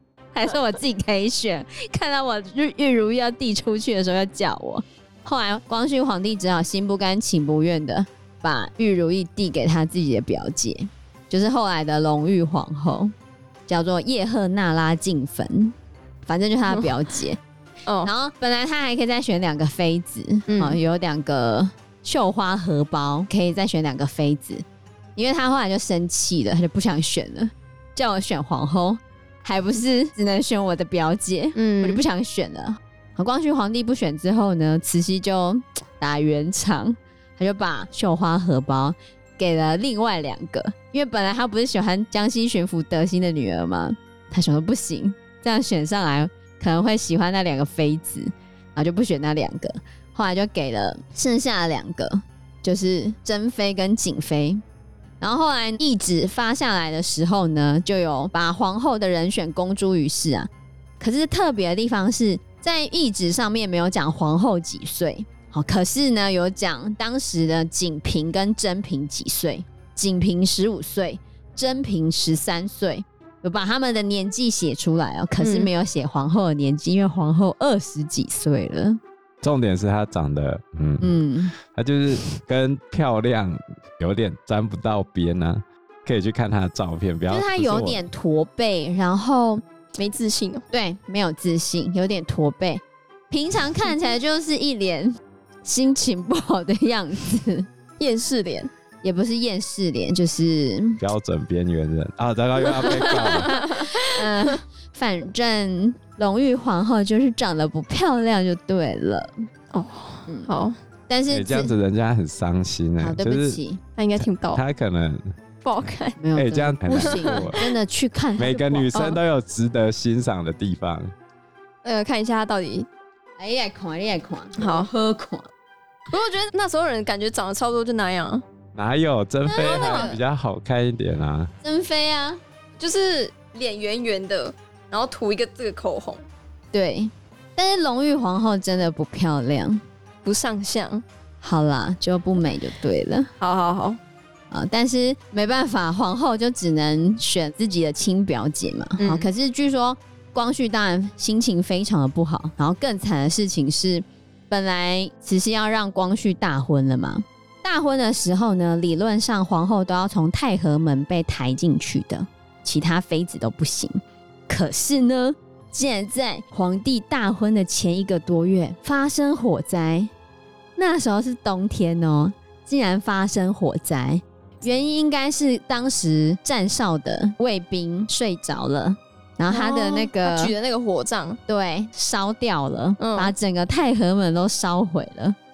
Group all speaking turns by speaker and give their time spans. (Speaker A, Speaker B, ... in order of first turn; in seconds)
Speaker A: 0.3-13.1, 13.7-15.7, 16.3-17.4, 18.0-24.6, 25.1-54.6, 55.2-60.5, 61.0-79.0, 81.0-81.5, 87.3-89.6, 90.7-97.7, 99.0-101.0, 103.2-109.3, 111.1-111.7, 113.0-113.8, 116.2-119.0, 123.4-125.5, 129.5-130.1, 131.6-132.4, 136.7-139.8, 141.4-143.3, 144.5-170.1, 170.8-180.5, 181.5-185.4
Speaker B: 20.5-20.8, 31.6-32.0, 75.4-75.7, 90.0-90.7, 98.0-98.7, 102.8-104.1, 109.7-110.7, 114.0-114.6, 115.6-116.2, 116.9-117.7, 121.8-122.9, 124.6-124.9, 126.1-128.4, 129.5-130.2, 132.8-136.2, 140.2-141.0, 143.4-144.0, 149.0-149.3, 179.5-181.4, 183.0-183.3
Speaker C: 79.4-88.0, 101.0-103.5, 111.3-113.6, 114.2-115.3, 116.3-117.6, 118.4-121.1, 128.7-131.5